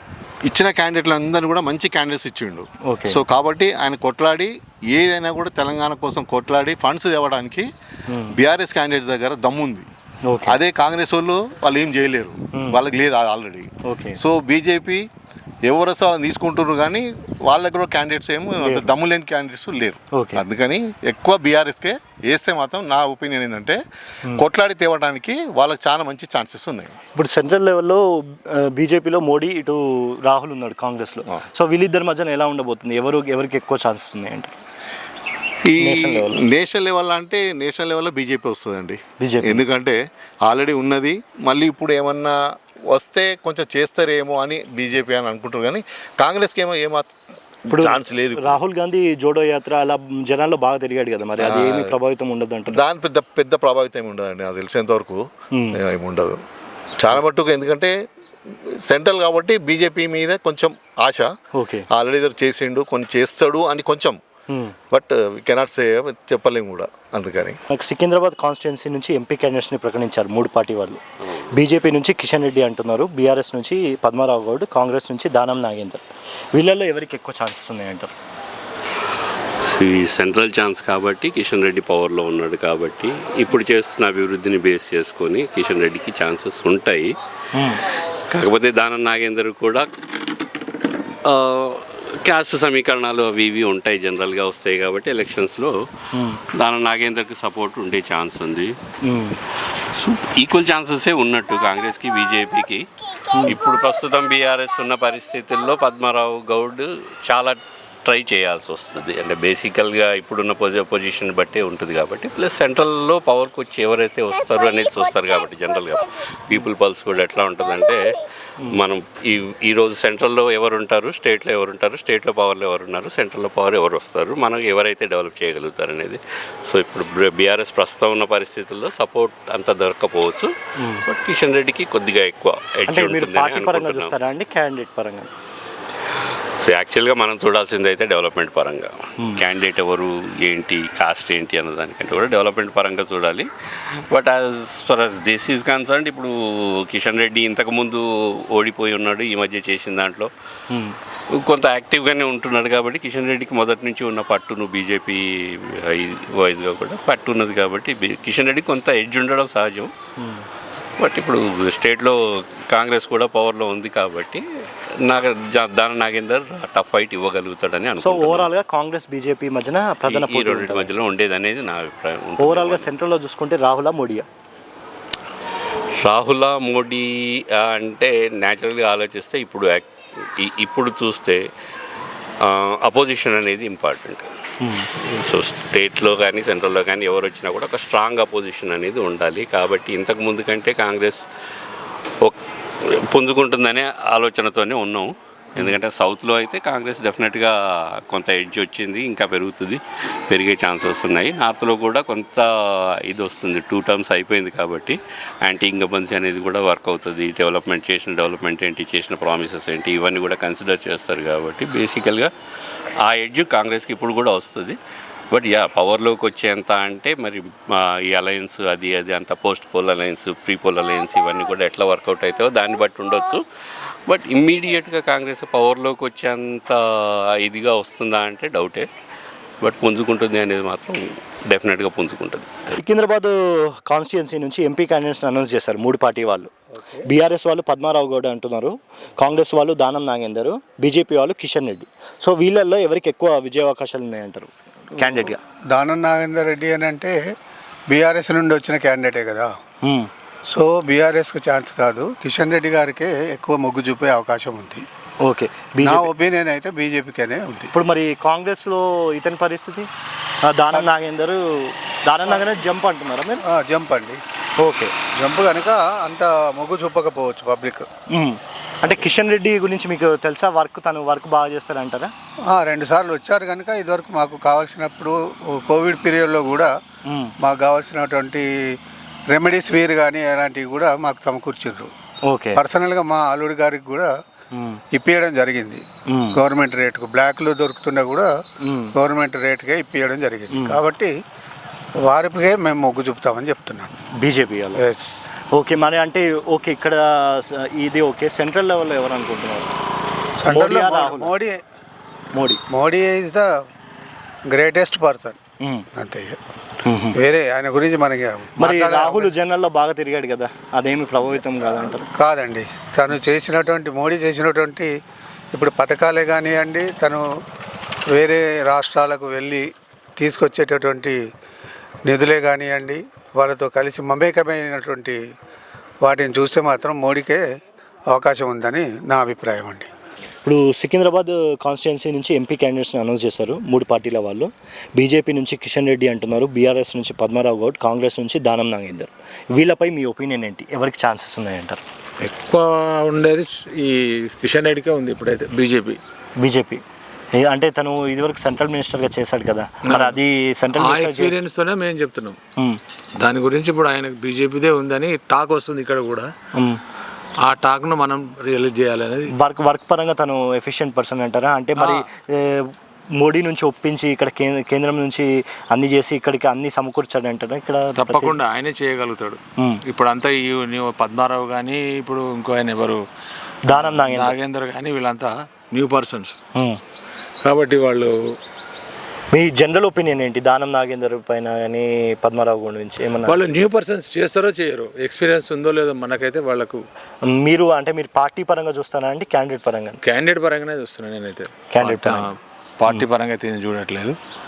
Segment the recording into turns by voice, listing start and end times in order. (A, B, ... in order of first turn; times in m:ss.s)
0:00.5-0:07.7 A
0:02.8-0:03.2 B
0:08.1-0:08.4 B
0:08.3-0:09.9 A
0:10.3-0:10.6 B
0:10.4-0:15.0 A
0:12.5-0:12.8 B
0:13.8-0:14.2 B
0:15.6-0:23.8 A
0:18.6-0:18.9 B
0:20.1-0:20.4 B
0:24.3-0:26.9 A
0:27.2-0:34.6 B
0:35.6-0:42.4 A
0:35.8-0:36.4 B
0:39.2-0:39.6 B
0:42.9-0:47.1 A
0:47.7-0:52.8 B
0:47.7-0:48.6 A
0:51.4-0:51.9 A
0:52.7-0:55.2 A
0:55.8-0:56.4 A
0:57.0-0:57.9 A
0:58.8-1:01.3 A
1:01.5-1:01.9 B
1:01.9-1:04.2 A
1:04.5-1:04.7 B
1:04.9-1:07.6 A
1:07.7-1:11.0 B
1:11.5-1:18.1 B
1:19.8-1:27.1 C
1:27.5-1:27.8 B
1:28.3-1:29.9 C
1:31.3-1:35.7 C
1:36.1-1:36.4 B
1:36.6-1:38.7 C
1:39.0-1:39.4 B
1:39.9-1:42.8 C
1:43.4-1:58.0 C
1:58.7-2:10.5 C
2:10.8-2:11.0 B
2:11.0-2:14.1 C
2:12.9-2:15.3 B
2:16.6-2:23.5 C
2:24.1-2:26.3 C
2:26.9-2:30.3 C
2:30.7-2:30.9 B
2:31.4-2:35.2 C
2:35.9-2:39.9 C
2:40.2-2:40.4 B
2:41.0-2:42.2 C
2:42.7-2:44.4 C
2:45.0-2:48.5 C
2:48.0-2:50.9 B
2:50.1-2:52.9 C
2:52.4-2:54.2 B
2:56.0-2:59.9 C
3:00.4-3:01.4 C
3:02.4-3:04.3 C
3:04.6-3:04.9 B
3:05.0-3:11.2 C
3:13.1-3:17.5 C
3:18.1-3:22.4 C
3:23.1-3:32.3 C
3:33.0-3:34.8 C
3:35.3-3:43.4 C
3:44.1-3:46.8 C
3:47.4-3:48.8 C
3:49.6-3:52.7 C
3:52.8-3:56.5 B
3:57.0-4:05.4 B
4:05.0-4:07.2 D
4:07.9-4:09.5 D
4:09.8-4:10.1 B
4:10.5-4:14.8 D
4:15.2-4:16.1 B
4:15.8-4:17.7 D
4:17.7-4:19.9 B
4:20.5-4:23.4 B
4:22.2-4:22.5 D
4:23.5-4:24.2 D
4:24.6-4:24.9 B
4:25.2-4:27.8 D
4:28.1-4:32.1 B
4:32.5-4:36.7 D
4:37.1-4:37.3 B
4:37.4-4:38.8 D
4:39.3-4:41.9 D
4:42.3-4:42.6 B
4:42.6-4:44.2 D
4:44.5-4:44.8 B
4:44.9-4:45.8 D
4:46.1-4:46.4 B
4:46.3-4:48.3 D
4:48.6-4:48.9 B
4:48.9-4:51.1 D
4:50.5-4:50.8 B
4:52.0-4:53.9 D
4:54.2-4:54.8 B
4:54.7-4:55.2 D
4:55.5-4:59.7 B
5:00.4-5:01.6 D
5:00.5-5:01.3 B
5:02.3-5:02.6 B
5:02.7-5:03.5 D
5:04.5-5:05.4 D
5:05.9-5:06.4 D
5:06.8-5:07.2 B
5:07.1-5:09.3 D
5:08.6-5:12.0 B
5:11.7-5:14.9 D
5:15.5-5:17.3 D
5:18.1-5:21.2 D
5:22.0-5:25.2 D
5:26.0-5:27.4 D
5:28.1-5:29.9 D
5:30.4-5:41.8 B
5:42.2-5:43.9 E
5:44.4-5:46.0 E
5:46.4-5:46.8 B
5:47.3-5:51.4 B
5:50.8-5:52.4 E
5:53.2-5:56.3 E
5:57.5-5:59.2 E
5:59.3-6:08.4 B
6:08.0-6:13.0 E
6:13.6-6:14.4 B
6:13.9-6:16.3 E
6:17.4-6:18.1 E
6:19.3-6:23.4 B
6:23.3-6:26.8 E
6:27.3-6:30.0 B
6:30.0-6:32.3 E
6:31.7-6:32.3 B
6:32.9-6:34.1 E